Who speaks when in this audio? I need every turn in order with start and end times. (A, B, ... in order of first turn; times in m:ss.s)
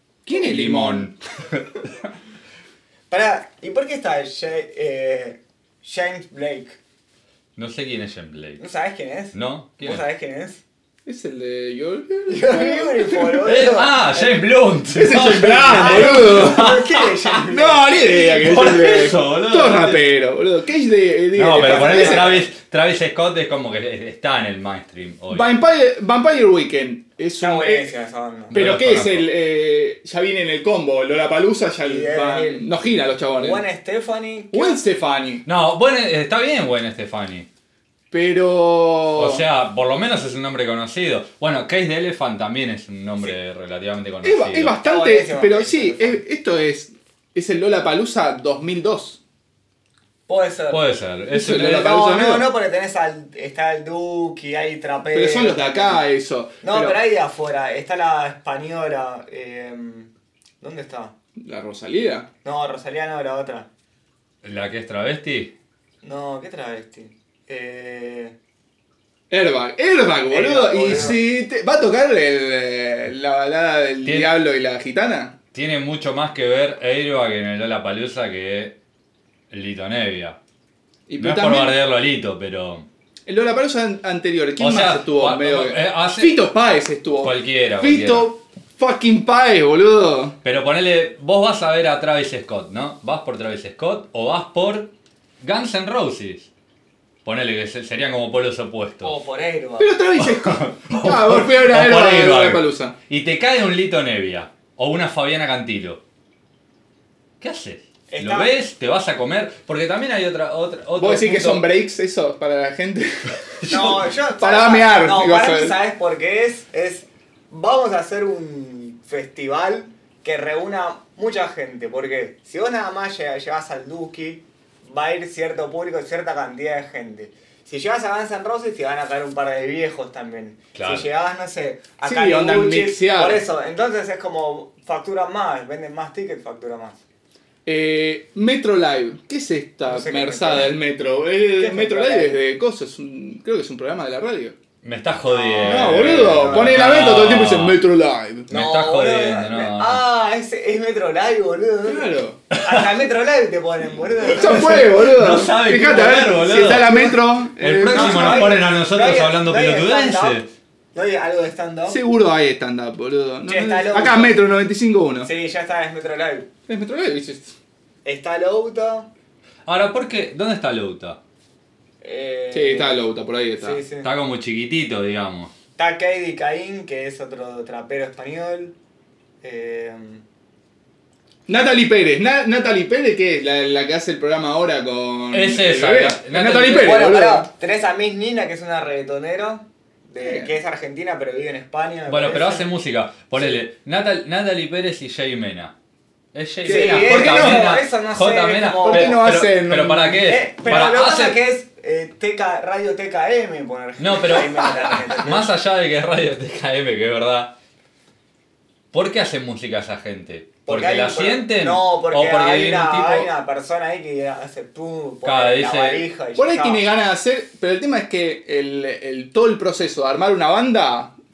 0:00.3-0:01.1 A
0:00.3-0:01.7 B
0:03.1-0:06.8 C
0:07.6-0:08.6 B
0:08.6-0:10.6 C
0:09.3-0:10.0 B
0:11.1-0:13.6 A
0:12.3-0:14.0 C
0:13.4-0:17.1 B
0:14.9-0:16.8 A
0:15.6-0:18.8 C
0:17.3-0:22.4 A
0:18.3-0:20.0 B
0:21.3-0:25.5 B
0:21.6-0:22.4 C
0:25.3-0:27.9 A
0:27.4-0:28.6 C
0:28.5-0:29.3 B
0:28.5-0:33.6 A
0:31.8-0:32.7 C
0:33.3-0:34.8 C
0:34.5-0:35.4 A
0:35.4-0:37.5 B
0:38.1-0:39.4 A
0:39.2-0:44.8 B
0:44.2-0:49.2 A
0:44.8-0:46.2 C
0:50.3-0:50.8 C
0:50.7-0:51.9 B
0:51.3-0:52.5 A
0:51.6-0:56.0 C
0:55.1-0:57.0 A
0:56.6-1:00.1 C
1:00.6-1:01.1 C
1:01.4-1:02.3 A
1:02.4-1:03.7 C
1:04.4-1:05.5 B
1:06.0-1:08.4 C
1:09.3-1:15.4 A
1:10.3-1:11.2 C
1:14.0-1:14.4 B
1:15.5-1:18.8 B
1:19.5-1:20.4 B
1:21.1-1:21.8 A
1:21.2-1:22.9 B
1:23.3-1:30.4 A
1:24.6-1:26.5 B
1:27.2-1:28.3 B
1:30.4-1:36.5 B
1:37.2-1:39.2 B
1:39.0-1:40.0 C
1:39.8-1:43.0 A
1:40.2-1:46.0 B
1:47.4-1:51.7 B
1:48.1-1:48.6 C
1:51.0-1:55.8 A
1:53.6-1:54.0 B
1:53.7-2:17.0 C
2:10.8-2:11.1 B
2:12.0-2:13.4 A
2:17.6-2:24.6 A
2:19.9-2:20.7 C
2:21.6-2:22.4 C
2:24.8-2:27.8 B
2:25.3-2:26.9 C
2:25.6-2:28.5 A
2:28.5-2:30.0 B
2:28.5-2:35.0 C
2:31.8-2:32.4 A
2:32.5-2:32.8 B
2:34.2-2:38.6 A
2:34.5-2:40.5 B
2:36.7-2:37.2 C
2:37.9-2:40.4 C
2:40.9-2:42.0 C
2:41.9-2:45.3 A
2:43.4-2:44.4 C
2:45.2-2:46.5 C
2:46.7-2:47.6 A
2:48.0-2:49.1 C
2:49.7-2:51.2 B
2:52.0-2:53.1 C
2:52.5-2:53.8 A
2:53.6-2:54.1 C
2:54.0-2:55.5 B
2:55.8-2:58.8 C
2:59.4-3:00.2 C
3:01.5-3:07.5 A
3:05.3-3:07.0 B
3:06.8-3:12.7 C
3:10.2-3:10.5 A
3:12.1-3:15.7 B
3:16.3-3:21.4 B
3:16.6-3:17.7 A
3:16.6-3:19.3 C
3:18.8-3:20.3 A
3:20.3-3:25.5 C
3:24.0-3:27.6 B
3:28.9-3:33.3 B
3:30.7-3:36.8 C
3:35.2-3:36.0 B
3:36.4-3:41.2 A